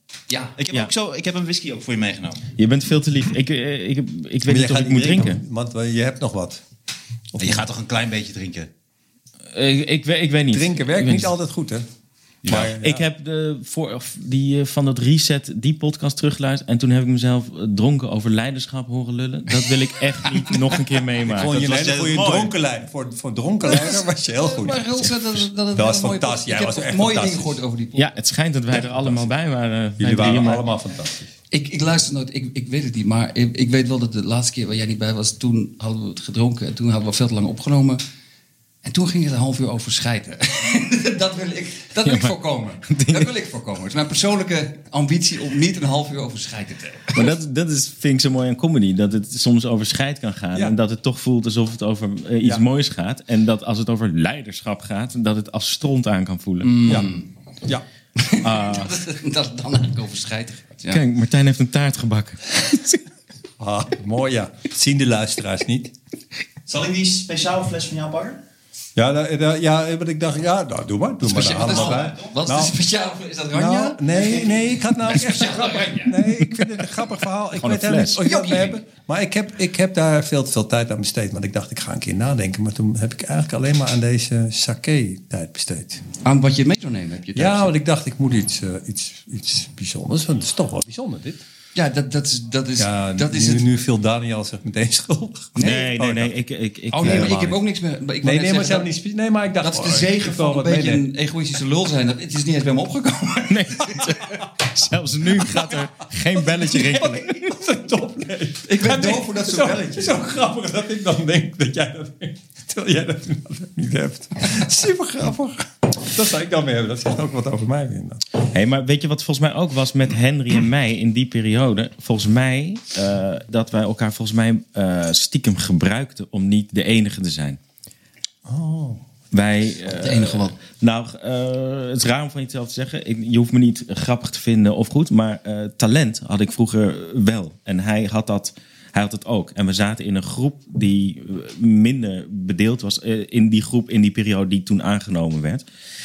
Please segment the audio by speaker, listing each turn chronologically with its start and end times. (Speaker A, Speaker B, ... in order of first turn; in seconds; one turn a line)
Speaker A: 0.3-0.5
Speaker B: 0.6-2.4
Speaker C: 2.6-5.4
Speaker D: 4.5-6.6
Speaker D: 7.3-7.7
Speaker B: 7.4-8.7
Speaker C: 9.5-11.3
Speaker D: 10.5-11.9
Speaker B: 12.4-12.7
Speaker D: 12.4-13.0
Speaker C: 12.5-21.5
Speaker D: 21.2-27.6
Speaker B: 21.5-22.5
Speaker A: 23.7-28.1
Speaker C: 27.9-30.7
Speaker D: 28.8-29.3
Speaker D: 30.0-31.3
Speaker A: 31.5-38.0
Speaker A: 38.8-47.3
Speaker C: 42.0-42.4
Speaker C: 42.9-43.3
Speaker C: 47.1-56.9
Speaker A: 56.6-57.3
Speaker A: 58.1-61.0
Speaker C: 58.4-58.9
Speaker C: 60.9-63.0
Speaker D: 63.6-65.9
Speaker B: 66.7-68.4
Speaker D: 69.0-72.8
Speaker A: 71.2-76.6
Speaker B: 71.4-72.3
Speaker D: 73.5-86.0
Speaker C: 77.5-78.2
Speaker A: 78.2-78.8
Speaker A: 86.2-87.7
Speaker D: 87.3-91.4
Speaker A: 91.7-93.7
Speaker D: 92.8-96.3
Speaker A: 95.5-95.9
Speaker C: 95.6-97.6
Speaker A: 96.9-98.9
Speaker D: 97.0-97.4
Speaker D: 98.2-101.1
Speaker A: 99.6-104.4
Speaker C: 103.5-107.5
Speaker D: 106.6-118.2
Speaker A: 108.7-110.2
Speaker C: 118.4-127.6
Speaker D: 128.4-129.0
Speaker C: 129.3-145.6
Speaker A: 129.9-130.6